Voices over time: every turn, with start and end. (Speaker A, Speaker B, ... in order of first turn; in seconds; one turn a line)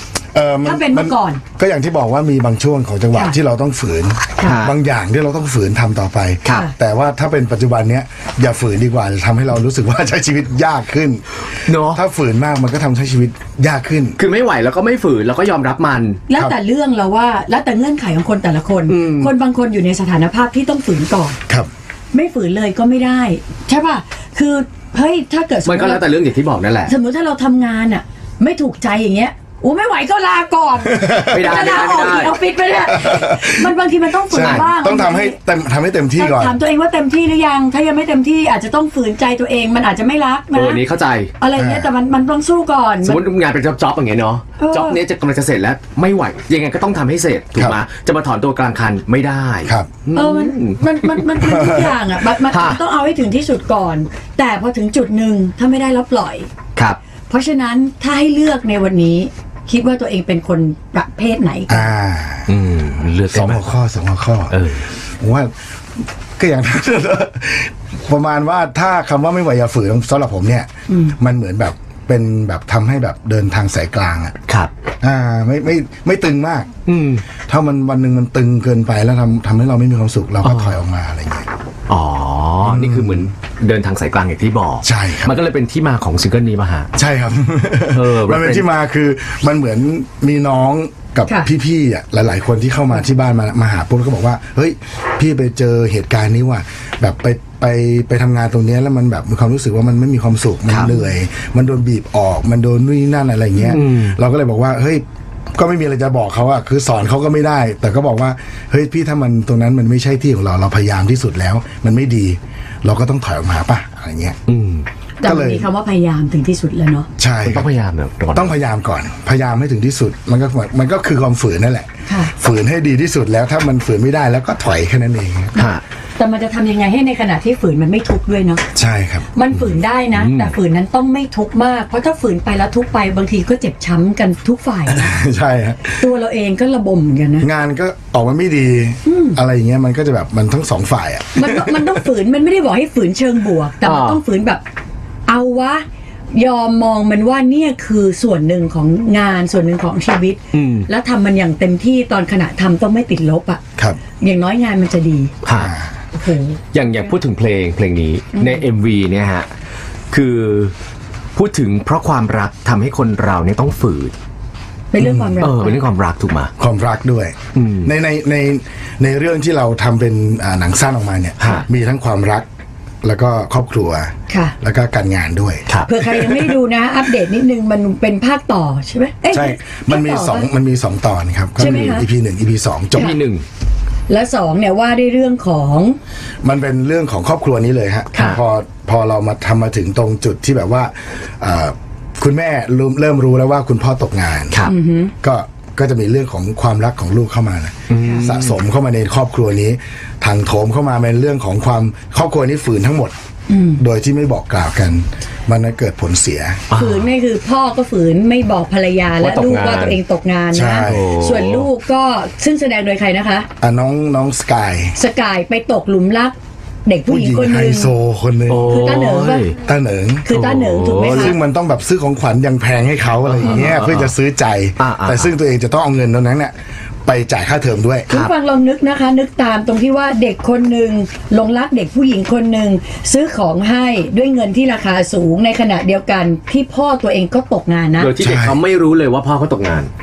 Speaker A: 0.3-11.2
Speaker B: 0.6-1.4
Speaker C: 4.4-4.7
Speaker B: 6.5-6.7
Speaker C: 11.7-12.0
Speaker A: 11.8-14.2
Speaker C: 14.2-16.2
Speaker B: 16.3-21.4
Speaker C: 18.9-19.3
Speaker B: 22.1-26.1
Speaker C: 25.6-26.9
Speaker B: 26.9-35.4
Speaker A: 30.9-31.6
Speaker C: 31.2-32.4
Speaker A: 32.9-33.7
Speaker A: 34.3-36.6
Speaker C: 34.3-34.6
Speaker B: 36.2-40.8
Speaker C: 40.5-41.3
Speaker B: 41.4-43.2
Speaker A: 41.5-41.9
Speaker C: 43.0-51.7
Speaker B: 44.6-45.0
Speaker A: 49.6-49.9
Speaker B: 50.1-56.5
Speaker A: 51.5-51.8
Speaker C: 52.5-52.8
Speaker B: 57.3-61.9
Speaker A: 61.7-62.5
Speaker C: 62.5-63.6
Speaker A: 63.3-64.6
Speaker C: 64.5-64.8
Speaker A: 65.2-74.4
Speaker B: 70.9-71.2
Speaker A: 75.0-76.7
Speaker C: 76.9-77.2
Speaker A: 77.4-81.5
Speaker C: 80.4-80.8
Speaker C: 81.9-86.9
Speaker A: 82.6-83.3
Speaker A: 84.8-85.3
Speaker A: 87.0-114.4
Speaker C: 87.9-88.7
Speaker C: 103.7-104.2
Speaker C: 114.5-114.8
Speaker B: 115.2-117.1
Speaker A: 115.2-115.7
Speaker A: 117.2-117.7
Speaker C: 117.4-118.5
Speaker A: 118.3-125.5
Speaker B: 122.1-122.3
Speaker C: 125.5-125.8
Speaker B: 126.2-128.6
Speaker A: 128.7-129.3
Speaker B: 129.3-135.2
Speaker C: 130.1-130.5
Speaker A: 134.9-136.0
Speaker B: 136.0-137.5
Speaker A: 137.4-141.9
Speaker B: 139.1-139.4
Speaker B: 141.3-144.6
Speaker C: 143.8-144.2
Speaker B: 145.3-153.6
Speaker C: 150.5-150.9
Speaker B: 154.2-155.3
Speaker C: 155.4-155.7
Speaker A: 155.5-155.9
Speaker B: 156.1-156.6
Speaker C: 156.7-159.5
Speaker B: 158.3-158.6
Speaker C: 160.1-160.7
Speaker C: 161.3-164.1
Speaker B: 164.9-165.8
Speaker A: 165.0-165.4
Speaker C: 165.4-166.5
Speaker A: 166.6-172.5
Speaker C: 167.5-167.9
Speaker C: 171.4-171.6
Speaker A: 173.0-176.5
Speaker B: 174.3-174.5
Speaker B: 175.8-180.5
Speaker A: 179.3-183.1
Speaker B: 181.6-182.1
Speaker C: 182.9-183.4
Speaker B: 184.1-186.0
Speaker A: 186.4-194.7
Speaker B: 194.7-195.1
Speaker A: 195.2-203.1
Speaker C: 197.9-198.5
Speaker B: 198.0-198.2
Speaker B: 203.5-203.8
Speaker A: 203.8-206.7
Speaker C: 206.7-207.1
Speaker B: 206.7-213.5
Speaker C: 209.2-210.0
Speaker A: 210.5-211.1
Speaker C: 210.8-211.7
Speaker A: 213.6-215.0
Speaker B: 214.9-217.9
Speaker A: 217.1-218.8
Speaker C: 218.5-219.6
Speaker B: 218.7-219.5
Speaker A: 219.6-220.3
Speaker B: 220.2-221.3
Speaker C: 220.3-221.3
Speaker A: 221.0-228.1
Speaker C: 223.2-224.1
Speaker C: 224.8-225.3
Speaker B: 228.1-238.1
Speaker C: 238.0-239.9
Speaker A: 238.2-238.6